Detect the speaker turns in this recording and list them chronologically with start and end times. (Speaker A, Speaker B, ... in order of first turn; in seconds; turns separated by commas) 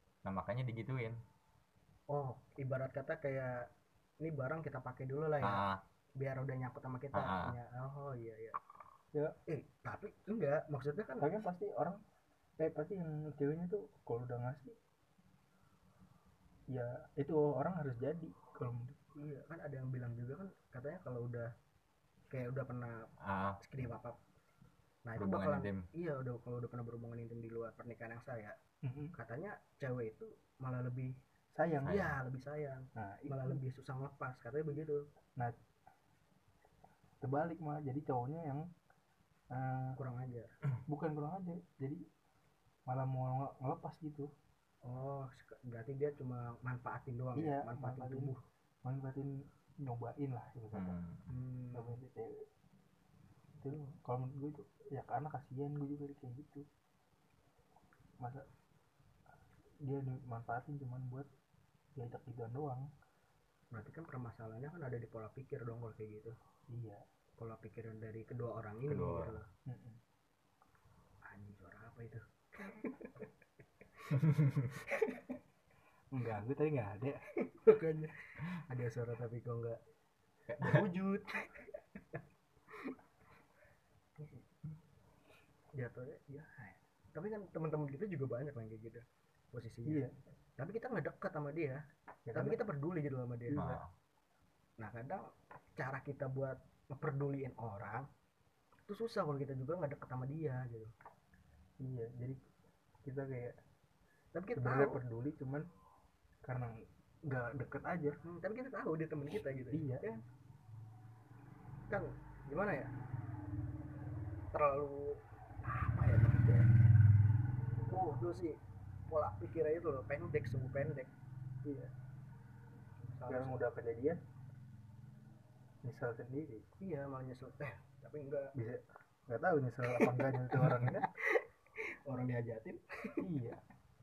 Speaker A: 0.2-1.2, Speaker B: 2.1-3.7, Speaker B: 4.2-5.6, Speaker A: 5.4-5.8, Speaker B: 6.2-8.6, Speaker A: 7.1-7.5, Speaker B: 9.4-11.3, Speaker C: 11.2-12.0, Speaker C: 12.6-14.8, Speaker C: 16.7-19.0, Speaker B: 19.1-21.5, Speaker B: 22.3-24.2, Speaker A: 23.2-23.6, Speaker B: 25.0-28.6, Speaker A: 25.2-25.9, Speaker C: 28.8-29.1, Speaker B: 29.1-31.1, Speaker C: 31.5-32.0, Speaker A: 31.8-32.1, Speaker B: 31.8-35.0, Speaker C: 33.0-33.6, Speaker C: 37.2-38.7, Speaker C: 39.5-40.0, Speaker B: 40.0-40.6, Speaker C: 40.9-42.0, Speaker C: 42.9-44.3, Speaker B: 44.8-48.4, Speaker C: 47.4-51.0, Speaker A: 50.7-51.3, Speaker B: 51.3-52.0, Speaker C: 51.7-52.5, Speaker C: 53.6-56.6, Speaker C: 58.2-58.5, Speaker C: 59.8-61.3, Speaker C: 62.0-62.9, Speaker B: 63.7-66.3, Speaker C: 66.7-67.0, Speaker B: 67.4-69.5, Speaker A: 68.9-69.4, Speaker C: 69.7-70.0, Speaker B: 71.2-73.3, Speaker B: 74.7-75.2, Speaker C: 76.1-77.2, Speaker B: 77.4-79.8, Speaker A: 80.5-80.8, Speaker B: 80.6-82.2, Speaker B: 84.2-84.4, Speaker B: 85.8-90.0, Speaker C: 89.9-90.1, Speaker B: 90.6-93.7, Speaker C: 92.3-92.6, Speaker C: 93.5-93.8, Speaker A: 93.5-93.9, Speaker B: 94.8-98.1, Speaker B: 98.9-100.9, Speaker C: 101.8-102.4, Speaker C: 103.0-103.6, Speaker B: 104.3-105.0, Speaker C: 104.5-105.7, Speaker C: 106.4-108.2, Speaker B: 108.2-110.2, Speaker C: 109.7-110.0, Speaker B: 111.9-112.9, Speaker B: 114.5-116.7, Speaker B: 117.9-121.1, Speaker C: 121.6-121.9, Speaker B: 123.1-123.6, Speaker C: 123.3-124.2, Speaker C: 125.8-126.6, Speaker B: 126.8-128.5, Speaker C: 128.6-131.1, Speaker B: 129.9-131.4, Speaker B: 132.1-133.2, Speaker C: 133.2-133.6